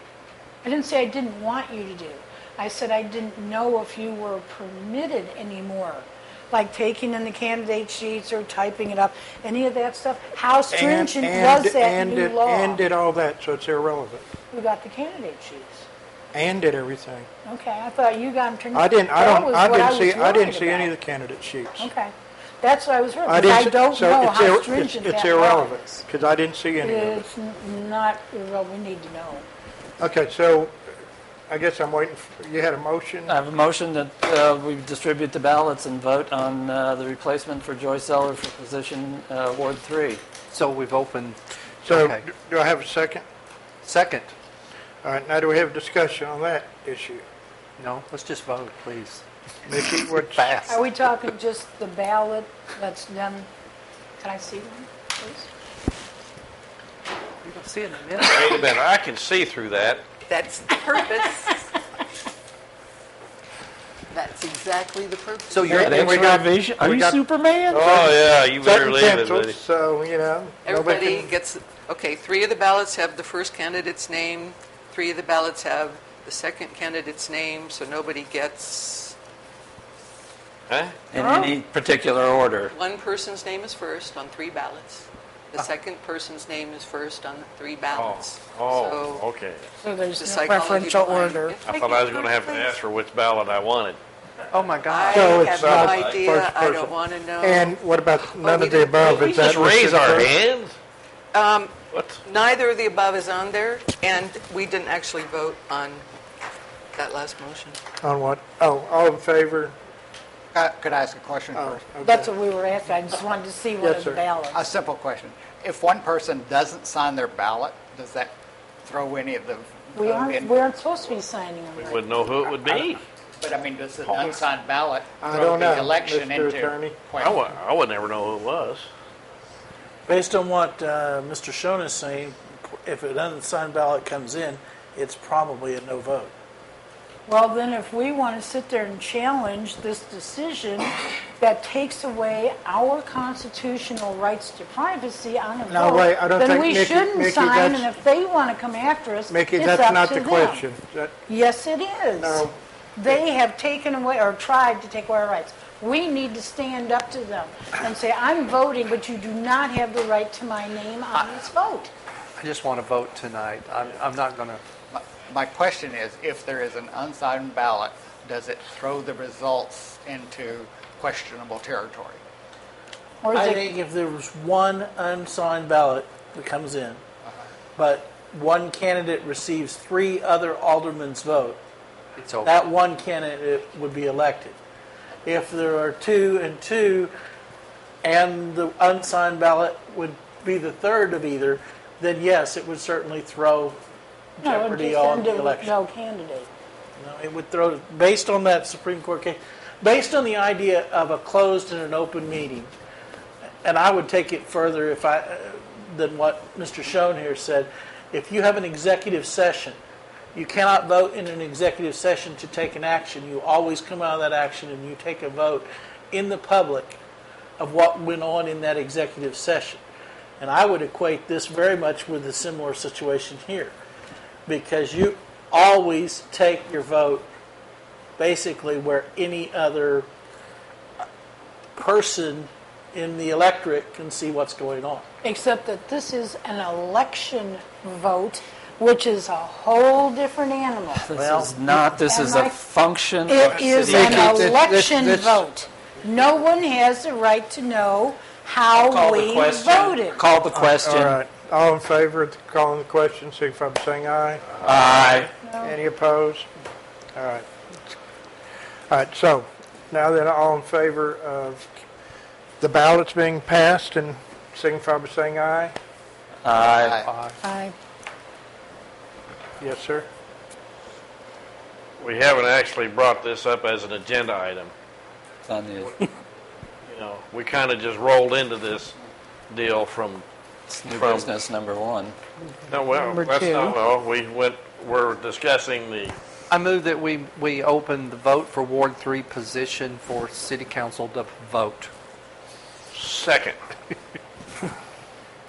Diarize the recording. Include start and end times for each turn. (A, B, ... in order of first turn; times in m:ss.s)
0:00.6-0:12.8 A
0:10.7-0:14.3 B
0:14.5-0:15.9 A
0:16.3-0:17.3 B
0:17.4-0:20.9 A
0:18.7-0:21.9 B
0:21.8-0:26.0 A
0:23.3-0:27.2 B
0:26.8-0:29.5 A
0:30.0-0:30.8 B
0:31.5-0:33.4 B
0:33.3-0:40.2 C
0:40.5-0:42.2 D
0:41.8-0:43.2 B
0:43.8-0:44.3 D
0:45.0-0:47.2 B
0:47.8-0:49.2 D
0:49.7-0:50.6 B
0:50.7-0:53.5 A
0:54.2-0:55.5 A
0:57.4-0:58.6 D
0:58.2-1:00.0 E
1:00.3-1:01.7 F
1:04.1-1:05.9 F
1:05.5-1:08.1 C
1:05.7-1:11.3 B
1:07.7-1:09.6 E
1:10.6-1:19.2 F
1:20.7-1:21.0 E
1:21.1-1:22.7 C
1:22.7-1:29.3 F
1:28.0-1:29.7 E
1:29.8-1:31.5 A
1:30.2-1:32.7 F
1:31.6-1:34.0 E
1:34.5-1:35.5 D
1:34.8-1:37.8 F
1:35.1-1:40.3 B
1:35.5-1:36.2 E
1:38.3-1:39.5 F
1:39.2-1:40.8 E
1:41.3-1:46.0 F
1:41.9-1:42.2 E
1:47.0-1:47.8 F
1:48.0-1:49.8 B
1:50.5-1:51.9 G
1:51.5-1:52.3 B
1:52.0-1:54.6 A
1:53.8-1:54.2 B
1:54.5-2:00.7 G
1:59.9-2:02.2 A
2:01.8-2:03.0 E
2:03.4-2:07.5 G
2:04.0-2:04.4 E
2:05.2-2:07.0 B
2:07.2-2:08.9 E
2:10.1-2:16.3 H
2:17.3-2:30.6 A
2:25.7-2:27.9 B
2:29.3-2:31.1 B
2:31.3-2:41.9 A
2:32.2-2:32.6 B
2:42.4-2:44.6 D
2:44.9-2:52.2 G
2:53.2-2:53.8 A
2:53.3-2:57.0 H
2:57.8-3:01.6 H
3:02.2-3:02.5 D
3:02.4-3:04.6 H
3:05.2-3:07.1 H
3:08.0-3:13.8 H
3:14.4-3:15.7 H
3:14.4-3:16.5 A
3:17.0-3:22.7 H
3:23.6-3:29.8 H
3:30.4-3:37.0 H
3:37.6-3:39.8 H
3:40.4-3:43.7 H
3:44.5-3:47.3 H
3:48.2-3:50.1 H
3:51.8-3:55.0 H
3:55.2-4:01.1 A
4:01.0-4:04.6 C
4:01.2-4:01.6 H
4:01.6-4:02.6 A
4:03.3-4:10.2 A
4:03.4-4:04.2 H
4:03.9-4:05.5 B
4:08.8-4:11.2 C
4:10.5-4:14.5 B
4:14.6-4:15.3 C
4:15.4-4:15.8 A
4:15.6-4:16.5 B
4:17.2-4:18.0 B
4:18.9-4:21.7 B
4:22.6-4:25.7 B
4:26.4-4:27.1 C
4:26.8-4:27.1 G
4:27.0-4:27.4 D
4:29.6-4:30.1 B
4:32.0-4:34.7 E
4:35.5-4:36.1 C
4:36.9-4:39.0 E
4:39.5-4:40.2 E
4:40.7-4:42.2 C
4:40.9-4:41.3 E
4:42.7-4:46.2 E
4:46.5-4:51.9 D
4:52.9-4:53.6 E